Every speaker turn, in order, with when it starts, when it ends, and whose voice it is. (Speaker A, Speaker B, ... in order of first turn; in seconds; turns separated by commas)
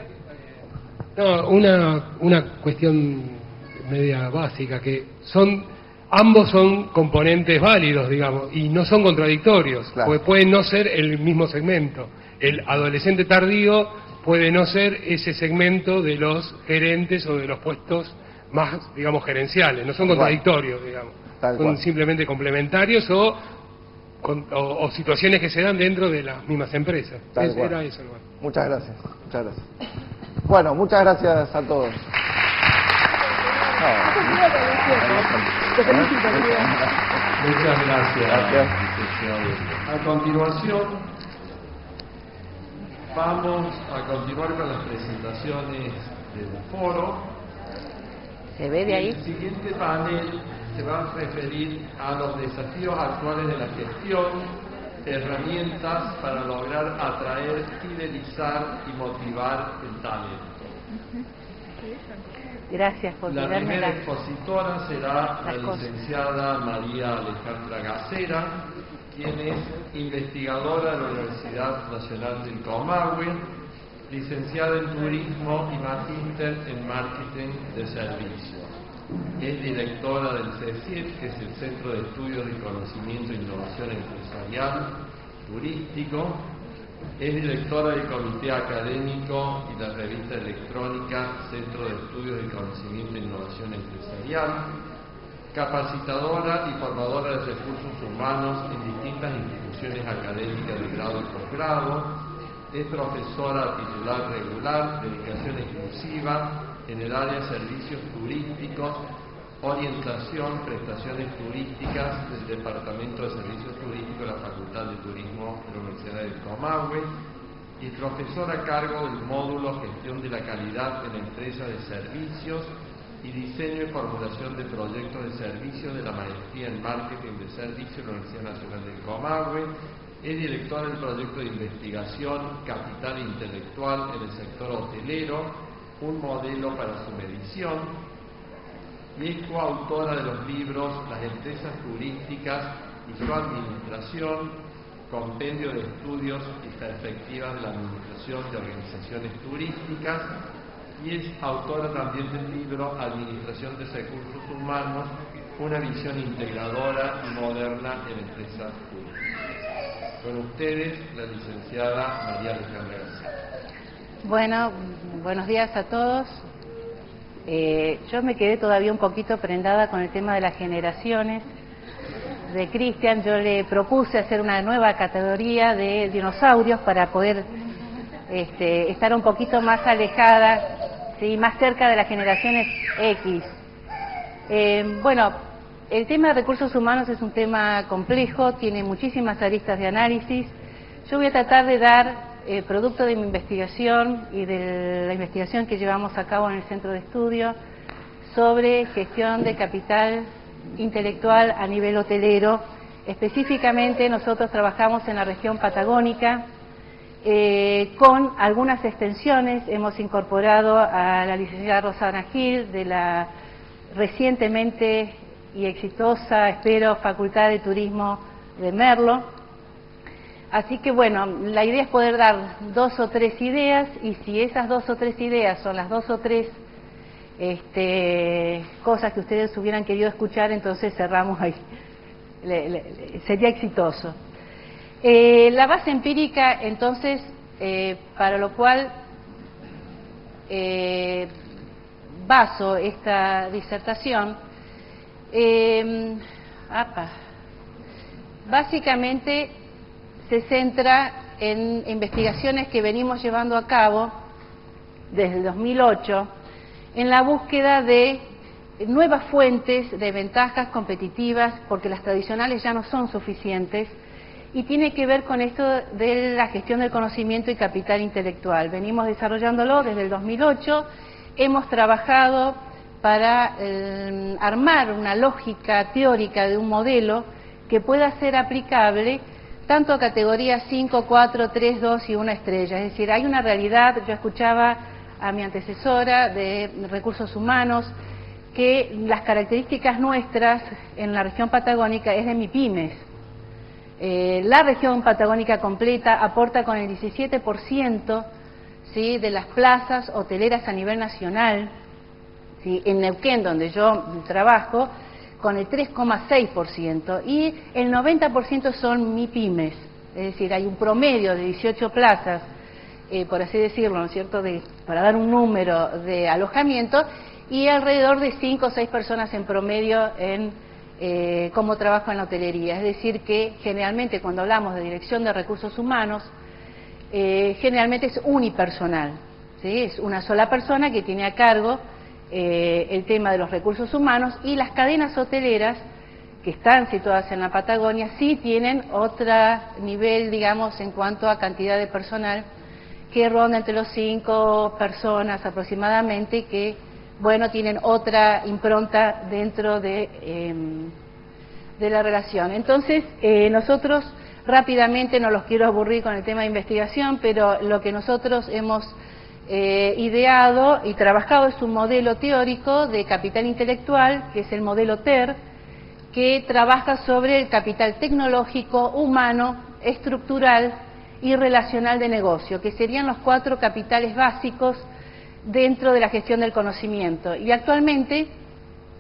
Speaker A: 1.2-23.4, Speaker B: 20.0-20.4, Speaker B: 21.4-21.8, Speaker A: 24.2-28.2, Speaker B: 27.4-27.8, Speaker B: 28.4-29.6, Speaker B: 30.4-32.0, Speaker B: 33.8-37.0, Speaker C: 37.4-41.0, Speaker B: 38.2-38.7, Speaker C: 43.1-47.3, Speaker D: 48.6-49.2, Speaker C: 48.9-60.8, Speaker D: 62.7-64.0, Speaker C: 63.3-68.6, Speaker D: 65.5-65.9, Speaker C: 69.1-73.4, Speaker C: 74.1-78.7, Speaker C: 79.4-84.9, Speaker C: 85.5-86.4, Speaker C: 87.2-94.7, Speaker C: 95.5-102.1, Speaker C: 102.7-109.0, Speaker C: 109.6-117.1, Speaker C: 117.8-122.7, Speaker C: 123.2-129.7, Speaker C: 130.2-137.9, Speaker C: 139.2-144.6, Speaker C: 145.1-150.3, Speaker C: 151.0-159.2, Speaker C: 160.2-163.3, Speaker D: 164.2-166.4, Speaker D: 167.5-171.4, Speaker D: 172.5-177.5, Speaker D: 178.3-183.5, Speaker D: 184.5-185.3, Speaker D: 185.9-190.5, Speaker D: 191.1-197.6, Speaker D: 198.3-206.4, Speaker D: 207.2-213.3, Speaker D: 213.9-219.2, Speaker D: 220.5-226.5, Speaker D: 227.4-231.6, Speaker D: 232.4-234.2, Speaker D: 235.0-238.9, Speaker D: 240.5-241.3, Speaker D: 242.2-244.4, Speaker D: 245.3-247.1, Speaker D: 248.5-249.5, Speaker D: 250.3-254.1, Speaker D: 255.1-256.3, Speaker D: 256.9-258.2, Speaker D: 258.8-263.9, Speaker D: 264.5-270.9, Speaker D: 271.4-287.9, Speaker D: 288.5-293.0, Speaker D: 294.0-298.3, Speaker D: 298.9-301.7, Speaker D: 302.6-312.5, Speaker D: 313.1-326.3, Speaker D: 327.1-335.8, Speaker D: 336.4-342.4, Speaker D: 343.1-350.9, Speaker D: 351.8-358.9, Speaker D: 359.5-365.4, Speaker D: 366.1-374.9, Speaker D: 375.4-378.3